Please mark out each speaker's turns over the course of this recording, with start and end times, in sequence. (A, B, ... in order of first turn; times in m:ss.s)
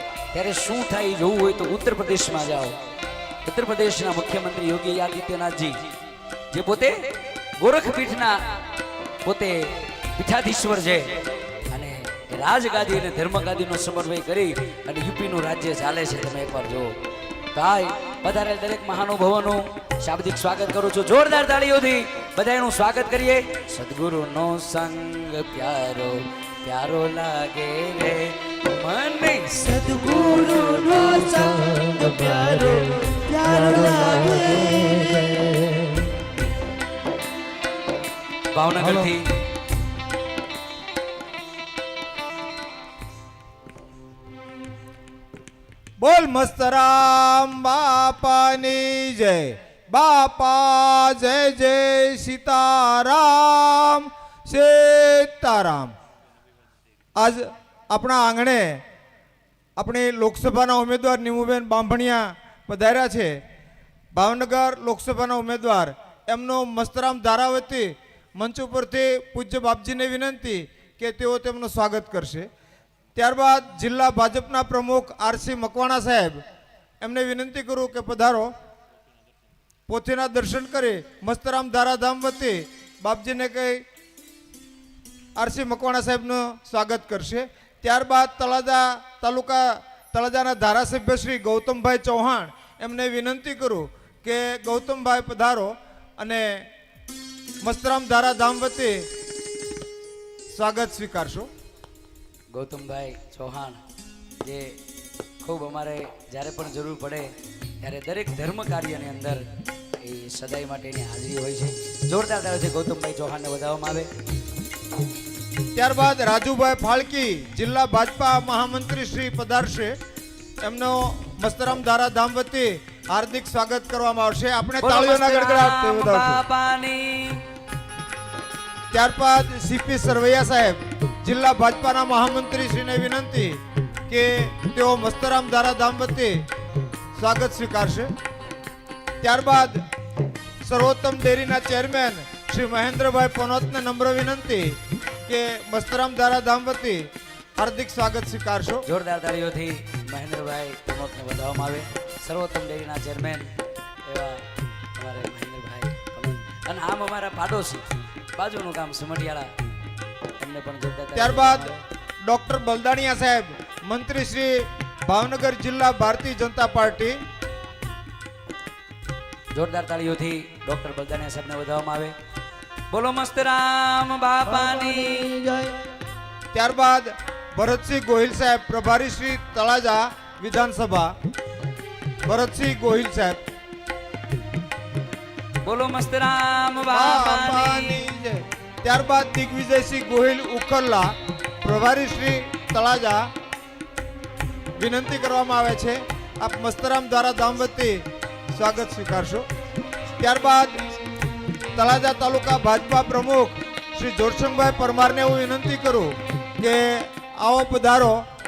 0:00.3-0:02.8 A
0:03.4-0:05.8 A
0:06.5-0:07.0 A
0:07.6-0:08.4 A
0:09.2-0:16.9 A
0:17.5-0:29.9 A
0:29.7-0:36.0 B
0:38.5-0:39.3 A
0:46.0-0:55.9 C
0:57.2-0:58.8 C
0:59.8-1:03.4 C
1:04.2-1:12.5 C
1:13.2-1:16.4 C
1:17.0-1:18.5 C
1:19.9-1:23.8 C
1:25.4-1:36.7 C
1:37.6-1:39.1 C
1:40.5-1:41.5 C
1:42.5-1:43.8 A
1:44.4-1:44.8 A
1:45.4-1:47.3 A
1:47.8-1:49.4 A
1:50.0-1:54.1 A
1:55.8-2:00.0 C
2:00.6-2:06.4 C
2:04.8-2:07.4 A
2:08.9-2:16.5 C
2:17.2-2:18.1 C
2:19.2-2:19.8 C
2:20.6-2:28.8 C
2:28.8-2:33.5 A
2:34.0-2:34.4 A
2:35.0-2:39.5 A
2:40.4-2:41.8 A
2:41.2-2:41.7 C
2:42.2-2:47.2 C
2:49.5-2:52.1 A
2:52.9-2:55.5 A
2:55.3-2:55.8 B
2:56.5-3:01.1 C
3:02.3-3:03.4 C
3:05.6-3:08.0 A
3:06.9-3:11.1 C
3:11.6-3:13.3 C
3:14.8-3:19.5 C
3:20.2-3:20.8 C
3:21.8-3:28.2 C